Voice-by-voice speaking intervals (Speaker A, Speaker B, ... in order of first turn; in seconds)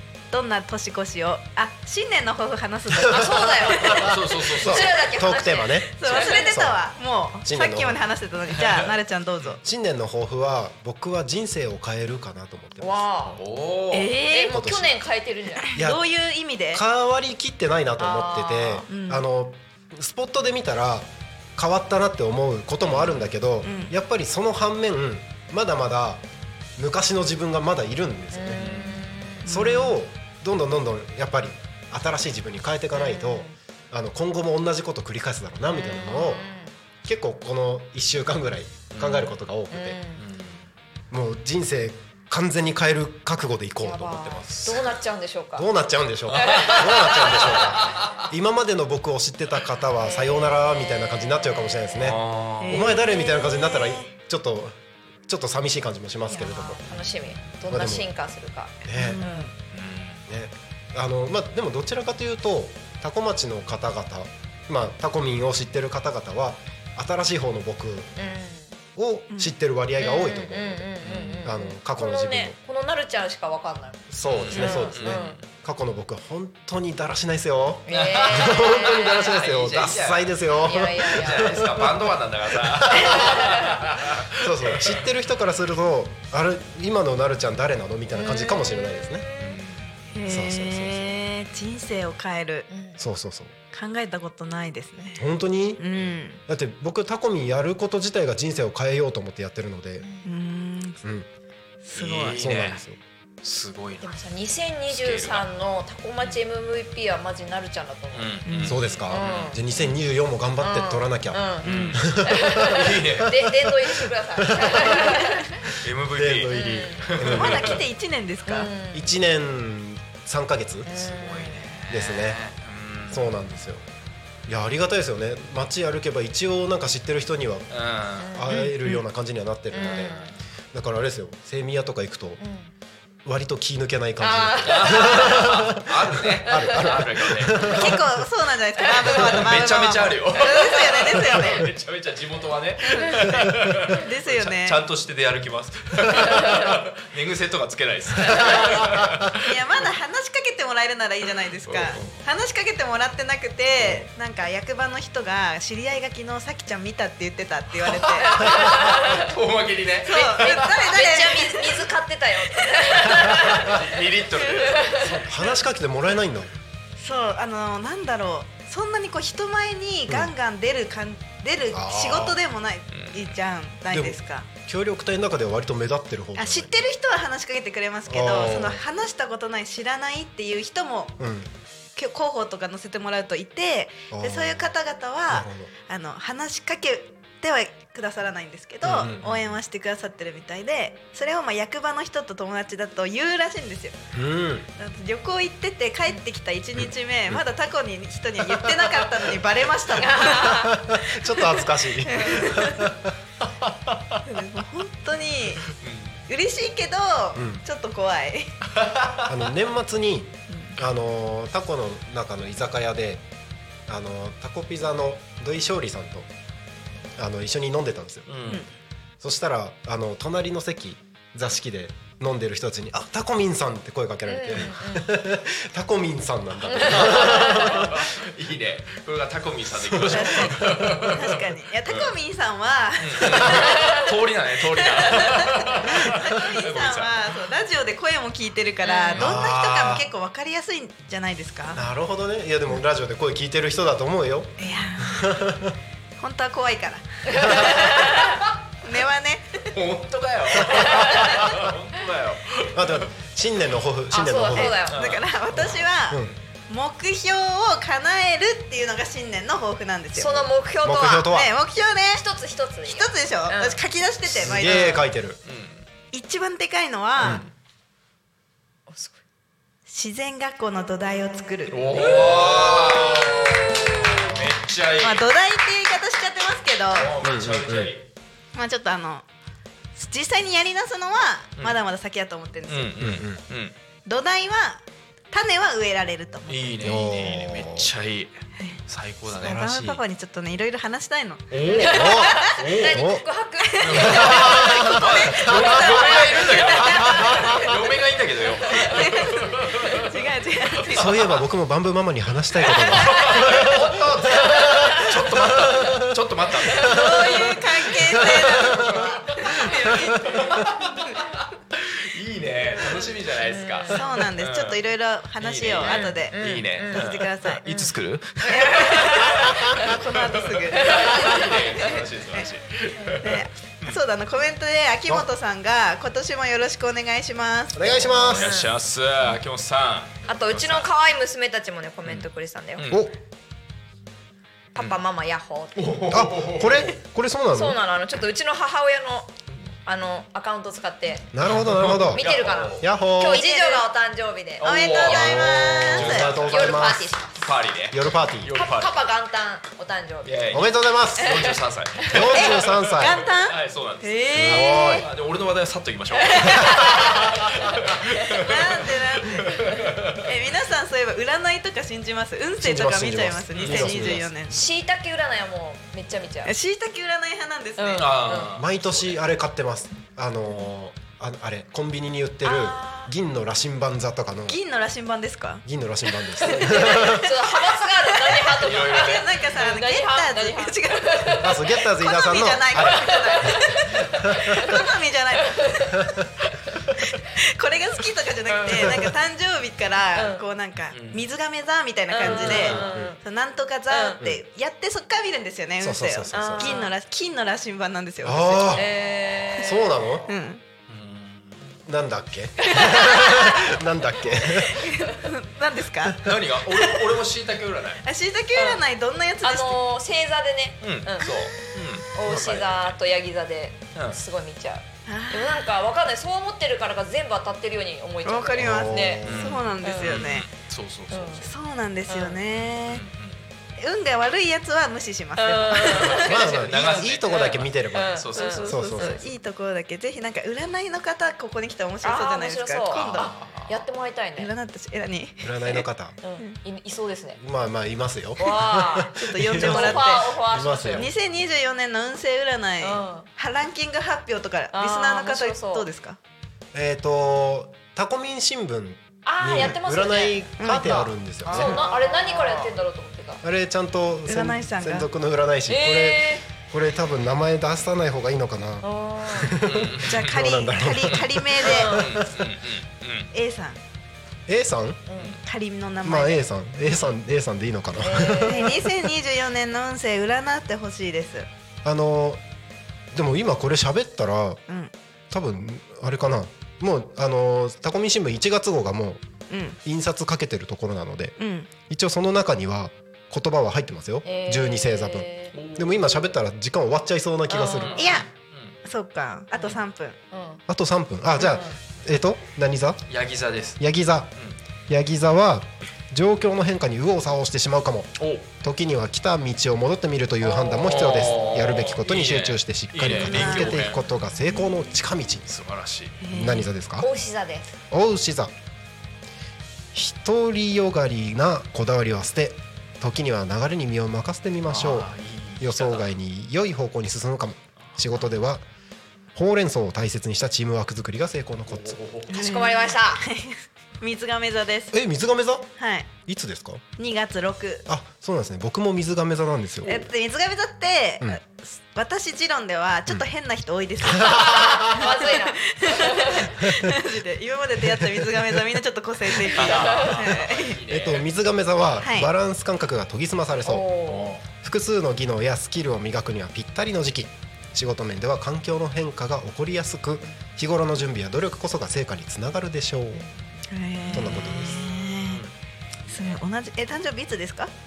Speaker A: 0.3-4.1, 6.0-9.6, 13.9-14.6, 15.7-16.8, 18.9-19.2, 23.6-23.9, 29.4-30.0, 52.6-53.5, 58.9-59.5, 74.6-74.8, 90.1-92.7, 93.7-95.2, 95.8-96.4, 100.2-101.0, 101.8-102.4, 108.5-108.8, 117.2-118.7, 137.7-141.6, 142.9-144.8, 148.4-148.8, 149.4-158.7, 160.0-161.9, 162.9-163.3, 164.4-164.8, 167.0-174.5, 176.3-181.2, 181.9-193.9, 194.8-200.8, 202.1-202.8, 204.2-205.6, 206.3-208.5, 210.5-210.8, 230.1-234.0, 234.8-241.8, 244.6-245.4, 246.2-248.3, 248.8-249.7, 254.6-260.5, 261.2-262.2, 262.8-265.1, 266.1-267.4, 269.9-272.1, 275.0-277.1, 278.5-279.2, 279.9-283.0, 284.1-287.2, 288.6-292.4, 293.7-297.4, 298.7-301.1, 306.9-310.2, 313.9-317.6, 318.4-321.4, 323.2-328.1, 343.1-343.9, 344.6-346.3, 352.3-355.0, 358.4-359.5, 360.2-364.6, 366.4-368.1, 374.5-375.6, 376.4-385.8, 387.3-398.8, 400.3-400.6, 404.6-406.9, 408.0-409.8, 415.1-415.7, 418.2-420.4, 421.4-423.0, 423.8-426.9, 428.3-433.3, 434.4-435.8, 439.1-440.3, 440.9-446.2, 450.6-451.8, 454.3-455.1, 460.0-462.0, 463.3-463.8, 465.4-466.4, 468.4-471.5, 479.5-479.8, 481.4-481.7, 487.9-488.3, 488.8-490.1, 503.2-503.8, 506.2-506.7, 522.3-524.9, 525.8-526.1, 527.0-527.8, 529.9-540.8, 542.0-542.3, 553.7-555.4, 556.1-557.7
Speaker B: 3.1-6.7, 12.8-13.4, 14.2-15.7, 18.0-18.9, 28.3-29.4, 32.9-33.5, 35.7-36.8, 39.7-40.2, 43.8-45.7, 46.4-47.6, 50.0-52.0, 53.1-54.0, 56.3-59.5, 68.2-68.8, 70.0-75.4, 77.9-79.4, 80.6-81.7, 83.1-83.7, 88.1-89.5, 92.7-93.0, 100.0-100.3, 104.0-108.4, 109.1-109.6, 110.6-115.6, 116.5-117.0, 118.5-119.2, 120.8-121.8, 128.2-128.6, 129.7-130.3, 132.4-132.7, 134.2-135.4, 158.2-159.3, 160.5-163.8, 164.6-165.1, 199.9-200.8, 202.2-202.5, 224.2-225.2, 226.7-227.8, 238.8-239.3, 247.3-248.2, 254.1-255.0, 260.1-261.3, 262.1-263.8, 268.9-269.2, 271.9-274.2, 291.7-294.9, 296.1-297.8, 306.7-307.4, 313.4-313.9, 315.9-317.1, 317.6-318.0, 318.5-319.3, 320.8-321.9, 328.3-328.7, 330.3-333.0, 334.7-336.1, 337.5-341.3, 342.1-345.4, 346.2-347.5, 348.5-350.6, 351.2-351.5, 356.2-357.2, 363.7-364.0, 364.5-366.5, 367.8-368.6, 372.4-373.1, 376.5-381.6, 382.9-383.8, 384.5-384.9, 385.6-386.0, 388.5-389.1, 390.1-390.4, 392.1-393.2, 393.9-394.2, 396.3-396.9, 398.7-400.0, 402.6-403.6, 404.8-405.2, 408.5-408.8, 409.4-411.4, 412.1-420.3, 421.1-421.5, 422.1-422.4, 425.4-429.2, 432.0-434.5, 436.2-437.4, 438.4-441.1, 442.8-443.3, 444.7-445.9, 449.2-450.4, 451.4-453.4, 455.7-456.5, 458.8-459.6, 461.8-462.2, 465.1-465.4, 468.0-468.8, 484.2-485.6, 487.5-488.1, 490.3-490.6, 491.4-491.8, 507.0-507.7, 522.3-523.2, 534.3-536.6, 539.6-540.2, 543.6-544.4
Speaker C: 3.1-6.8, 7.4-8.1, 9.6-13.1, 14.5-15.0, 15.7-16.0, 16.7-26.2, 26.8-28.7, 29.4-36.5, 37.0-40.0, 41.1-44.9, 45.5-56.8, 57.7-58.1, 58.9-59.2, 60.3-68.1, 69.0-72.6, 74.1-82.2, 82.7-83.3, 84.4-89.3, 90.3-91.1, 93.0-93.5, 95.2-95.8, 96.5-100.0, 101.0-101.3, 102.4-103.0, 108.7-113.4, 114.5-115.1, 116.1-117.8, 118.9-121.0, 121.9-122.4, 123.1-123.8, 124.5-132.4, 133.2-138.0, 165.0-166.5, 171.7-172.4, 173.9-176.8, 178.1-178.8, 181.2-181.5, 184.1-184.7, 185.3-185.7, 188.8-189.4, 194.1-194.7, 196.8-197.4, 198.5-198.8, 200.1-203.1, 207.3-207.6, 209.3-213.2, 213.9-216.3, 217.2-218.5, 219.2-227.9, 229.9-230.2, 239.1-240.1, 241.7-245.7, 252.7-254.8, 260.8-261.5, 264.3-265.4, 267.2-267.4, 277.2-277.9, 283.0-283.4, 286.8-287.9, 291.8-293.2, 294.1-294.8, 295.5-295.8, 300.9-306.2, 327.7-328.5, 332.9-333.1, 336.1-337.8, 341.3-343.4, 345.4-347.1, 347.9-348.6, 350.5-353.2, 354.4-355.1, 362.6-364.2, 368.5-374.6, 375.6-377.3, 381.4-383.5, 384.1-384.7, 386.0-386.2, 392.2-393.1, 395.8-396.8, 398.2-398.9, 399.5-400.2, 401.9-404.8, 418.6-419.6, 426.2-429.2, 435.4-436.2, 437.4-441.1, 446.7-451.8, 453.4-462.5, 464.5-465.1, 466.0-468.8, 471.8-472.4, 473.1-474.6, 475.3-479.2, 479.8-481.4, 481.9-487.9, 490.7-493.0, 493.8-494.3, 494.9-505.4, 506.3-507.1, 507.9-508.5, 509.9-518.6, 519.3-522.0, 524.9-525.7, 526.2-526.8, 527.9-529.9, 534.3-534.8, 536.6-536.9, 540.9-543.9, 544.6-553.2, 554.1-554.8
Speaker D: 4.0-5.0, 13.3-14.2, 22.9-23.3, 28.5-29.1, 38.9-39.3, 40.2-40.6, 46.3-48.2, 52.0-52.8, 59.7-60.2, 71.0-71.5, 74.2-75.4, 77.9-85.0, 89.4-89.9, 101.9-102.8, 103.4-104.1, 104.9-105.5, 108.1-109.6, 111.6-113.4, 115.7-117.8, 121.0-123.3, 127.7-128.3, 129.8-130.1, 134.6-137.8, 139.1-149.5, 151.7-152.2, 157.8-160.8, 163.6-165.0, 172.9-173.4, 203.7-204.2, 205.7-206.2, 208.8-209.3, 218.3-218.6, 226.9-232.1, 233.0-237.1, 249.7-253.0, 254.9-255.8, 265.4-265.8, 267.2-267.5, 271.7-275.2, 276.9-278.0, 282.7-283.7, 286.5-290.0, 291.5-293.0, 293.8-300.1, 302.6-314.8, 315.4-319.7, 320.7-324.0, 328.0-330.9, 332.1-333.1, 335.8-336.9, 341.4-342.9, 344.6-346.9, 347.4-348.9, 350.2-360.2, 363.5-363.9, 367.9-369.1, 378.6-379.3, 390.9-391.2, 400.9-401.7, 406.2-408.0, 410.8-413.0, 413.9-414.2, 419.2-421.5, 422.8-423.5, 426.2-428.8, 432.9-433.8, 451.6-452.7, 459.6-460.4, 461.0-463.3, 485.5-486.2, 487.6-488.7, 493.1-493.8, 498.2-498.5, 500.4-504.0, 505.4-506.2, 514.7-516.1, 521.7-522.5, 539.5-541.3, 544.1-544.4, 555.2-555.5, 556.1-556.4